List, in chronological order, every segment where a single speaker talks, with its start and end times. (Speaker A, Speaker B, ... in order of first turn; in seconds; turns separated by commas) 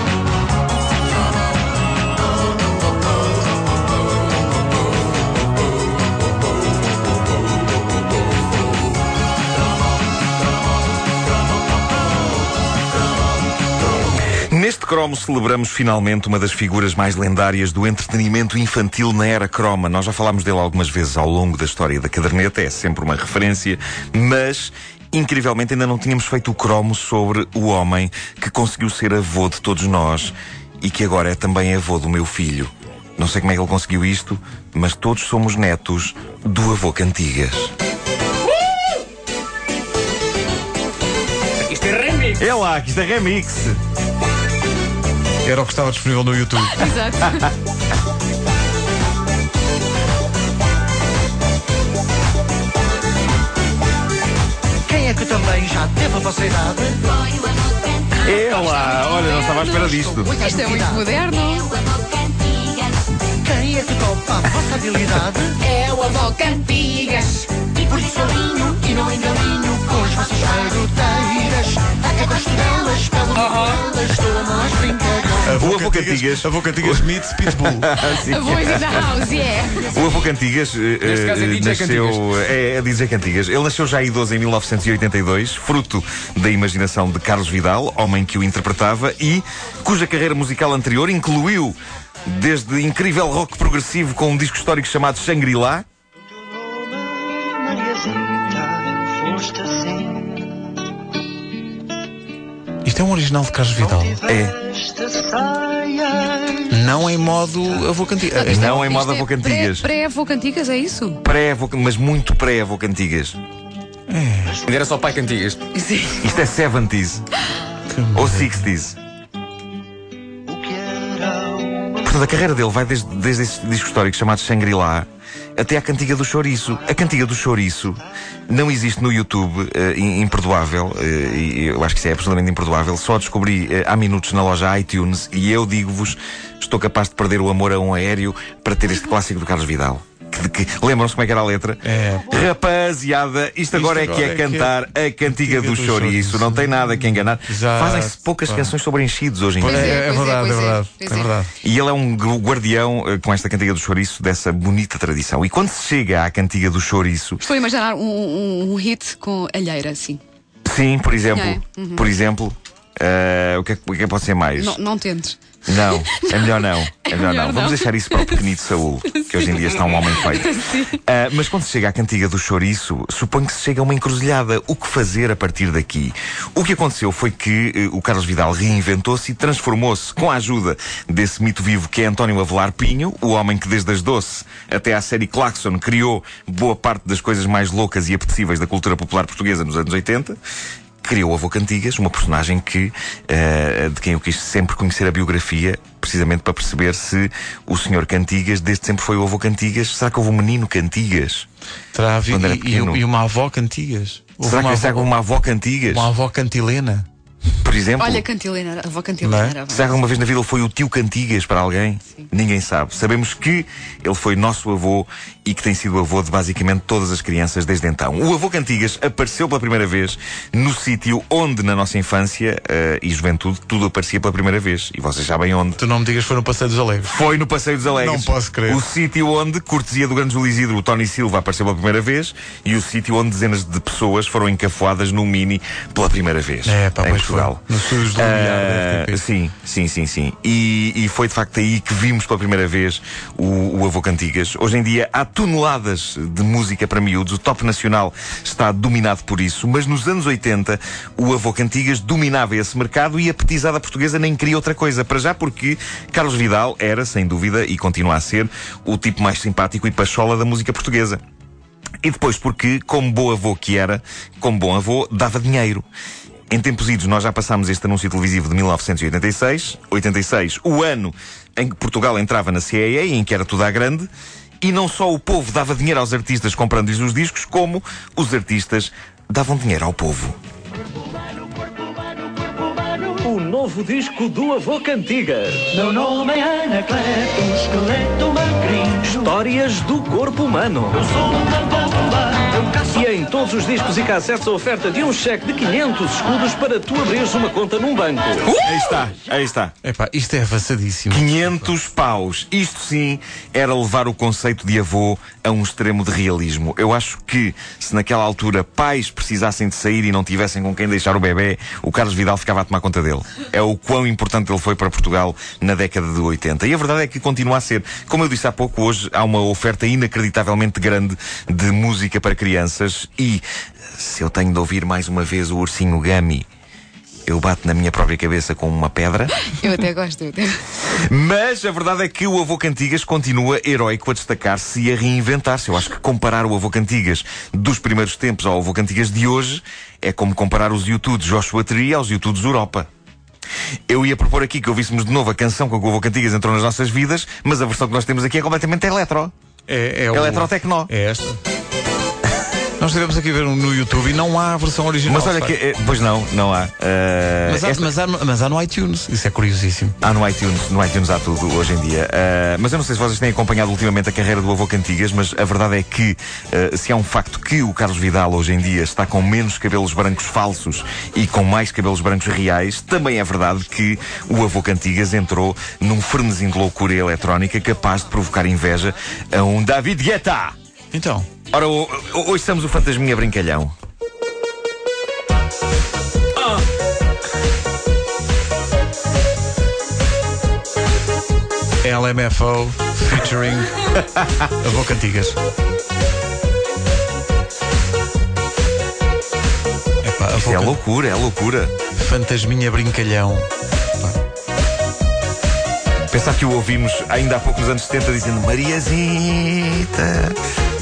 Speaker A: 14.5-37.7, Speaker B: 41.6-42.4, Speaker A: 42.4-43.8, Speaker C: 45.4-46.9, Speaker D: 46.7-47.5, Speaker E: 54.9-57.2, Speaker A: 58.2-60.4, Speaker D: 59.5-62.0, Speaker E: 60.1-61.0, Speaker E: 63.4-65.6, Speaker D: 65.6-67.5, Speaker E: 67.6-75.4, Speaker B: 73.4-73.8, Speaker C: 75.5-78.1, Speaker A: 75.5-79.3, Speaker D: 78.1-79.9, Speaker A: 79.9-95.8, Speaker B: 81.0-82.2, Speaker E: 96.5-100.6, Speaker C: 102.8-104.2, Speaker E: 103.9-106.7, Speaker A: 104.3-104.6, Speaker C: 106.7-108.8, Speaker A: 108.4-109.9, Speaker D: 108.4-111.2, Speaker A: 111.2-113.4, Speaker C: 114.1-114.7, Speaker B: 114.7-115.6, Speaker D: 115.7-116.3, Speaker A: 116.2-117.2, Speaker C: 117.9-118.7, Speaker A: 118.1-119.0, Speaker E: 120.5-122.0, Speaker A: 122.0-150.0, Speaker C: 141.8-142.3, Speaker C: 143.7-146.7, Speaker C: 147.4-148.7, Speaker C: 149.6-151.5, Speaker D: 149.7-151.3, Speaker A: 151.6-157.4, Speaker D: 157.4-160.2, Speaker A: 160.7-164.8, Speaker D: 161.3-162.1, Speaker D: 164.6-168.5, Speaker A: 165.7-190.4, Speaker D: 169.1-169.5, Speaker D: 170.3-171.0, Speaker A: 191.0-201.5, Speaker C: 201.9-205.1, Speaker A: 202.3-203.0, Speaker A: 204.4-206.1, Speaker C: 205.9-207.1, Speaker A: 207.6-208.3, Speaker D: 208.0-210.0, Speaker C: 209.2-209.6, Speaker A: 209.7-225.8, Speaker C: 225.8-227.2, Speaker A: 227.1-261.2, Speaker C: 227.9-228.8, Speaker C: 236.7-239.2, Speaker A: 262.0-265.9, Speaker A: 266.5-274.1, Speaker A: 274.6-280.4, Speaker F: 283.0-298.6, Speaker E: 285.8-287.3, Speaker A: 298.6-299.7, Speaker C: 299.8-301.7, Speaker A: 301.1-326.5, Speaker A: 327.3-329.4, Speaker D: 329.4-330.6, Speaker A: 330.8-342.9, Speaker A: 343.9-349.3, Speaker C: 349.7-351.4, Speaker A: 350.1-350.9, Speaker C: 352.8-355.6, Speaker A: 355.1-357.9, Speaker C: 357.5-360.0, Speaker A: 360.0-380.6, Speaker C: 380.9-381.3, Speaker A: 381.5-383.7, Speaker C: 391.8-393.9, Speaker C: 394.6-395.4, Speaker C: 400.0-400.8, Speaker A: 400.3-401.7, Speaker C: 401.9-404.2, Speaker A: 406.0-410.4